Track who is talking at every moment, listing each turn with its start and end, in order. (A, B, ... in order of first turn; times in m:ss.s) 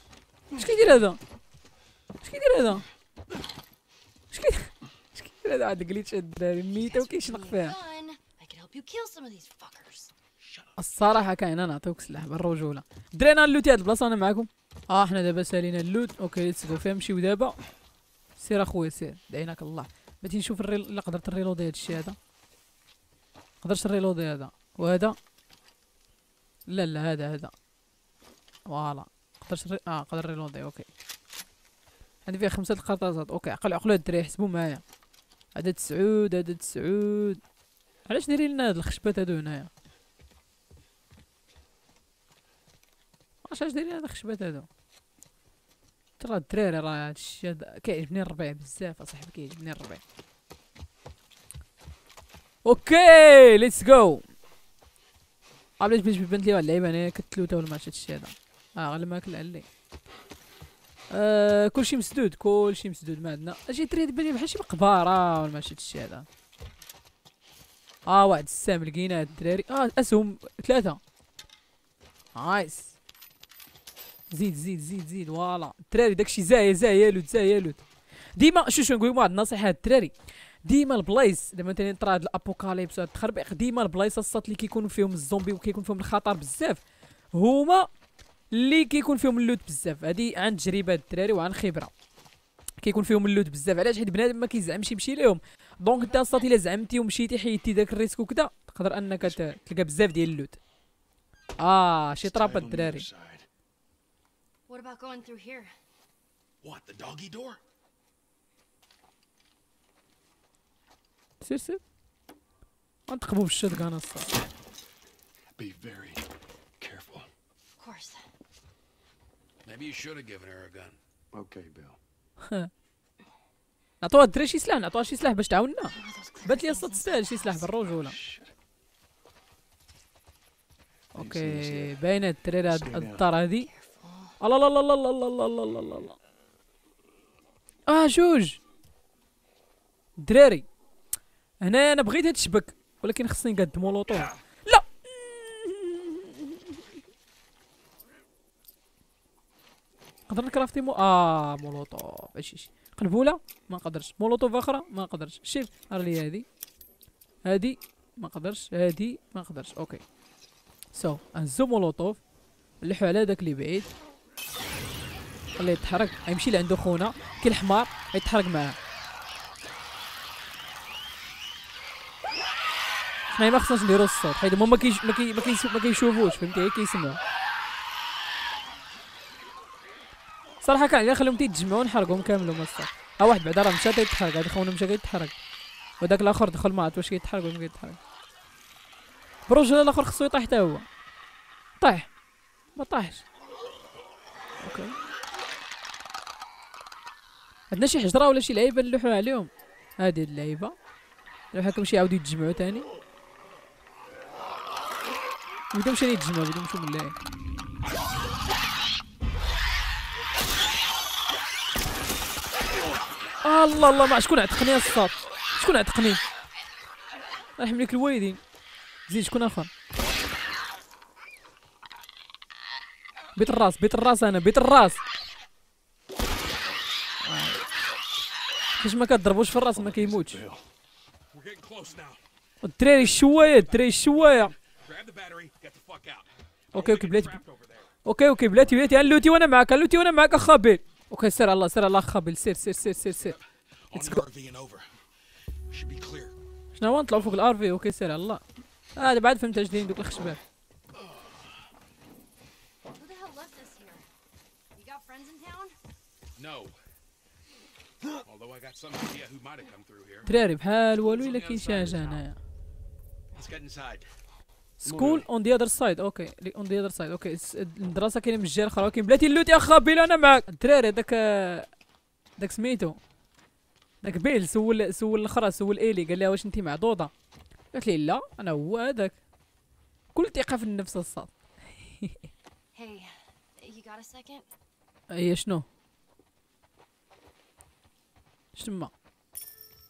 0:00.5-0:01.2 A
0:02.2-0:02.8 A
0:04.3-0:07.7 A
0:06.7-0:10.1 B
0:10.4-0:10.8 C
0:10.8-0:17.6 A
0:18.4-0:22.2 A
0:23.6-0:25.2 A
0:26.7-0:27.5 A
0:28.6-0:30.9 A
0:32.2-0:34.8 A
0:35.5-0:37.4 A
0:38.0-0:39.7 A
0:43.4-0:44.7 A
0:46.2-0:50.0 A
0:52.6-0:54.3 A
0:55.8-0:59.6 A
1:01.1-1:06.3 A
1:08.0-1:11.0 A
1:12.3-1:12.9 A
1:14.3-1:17.8 A
1:18.3-1:26.8 A
1:27.3-1:27.9 A
1:28.5-1:31.9 A
1:32.8-1:40.6 A
1:36.0-1:36.5 B
1:41.6-1:43.1 A
1:42.2-1:43.4 D
1:44.7-1:45.7 B
1:46.6-1:47.6 C
1:51.4-1:51.8 A
1:53.1-1:54.3 A
1:55.6-1:56.3 D
1:56.8-1:57.3 D
1:57.8-1:58.2 B
1:59.6-2:01.0 C
2:01.3-2:02.0 D
2:02.4-2:02.7 A
2:04.0-2:08.2 A
2:05.9-2:07.7 B
2:07.9-2:08.5 D
2:11.1-2:13.7 A
2:11.1-2:12.0 D
2:12.6-2:13.2 D
2:13.5-2:14.4 B
2:14.4-2:16.2 A
2:17.9-2:18.6 A
2:20.2-2:20.6 A
2:21.6-2:26.8 A
2:30.3-2:36.4 A
2:37.4-2:40.0 A
2:40.9-2:42.2 A
2:42.8-2:43.9 A
2:45.6-2:48.8 A
2:53.3-2:57.2 A
3:00.6-3:05.3 A
3:06.0-3:08.0 A
3:09.5-3:10.8 A
3:11.8-3:12.1 A
3:12.8-3:13.2 A
3:14.6-3:14.9 A
3:17.7-3:20.7 A
3:21.5-3:22.9 A
3:25.7-3:27.1 A
3:33.4-3:36.2 A
3:37.6-3:38.4 A
3:39.1-3:39.7 A
3:43.4-3:45.0 A
3:47.2-3:47.6 A
3:48.8-3:50.4 A
3:49.7-3:50.7 D
3:51.3-3:52.2 C
3:52.6-3:54.5 A
3:52.9-3:57.9 C
3:56.7-3:57.4 A
3:58.0-4:03.4 A
4:03.0-4:04.9 C
4:03.9-4:04.2 A
4:05.7-4:06.3 C
4:06.8-4:08.4 A
4:09.0-4:10.4 A
4:13.0-4:14.0 B
4:14.7-4:15.7 B
4:16.4-4:16.8 C
4:18.2-4:20.3 C
4:20.2-4:22.4 A
4:21.0-4:22.2 C
4:23.3-4:24.1 C
4:24.8-4:31.7 A
4:24.8-4:25.3 D
4:32.4-4:33.0 A
4:34.0-4:37.1 A
4:37.7-4:39.1 A
4:40.1-4:42.2 A
4:42.7-4:44.4 B
4:45.1-4:45.6 A
4:48.5-4:48.9 A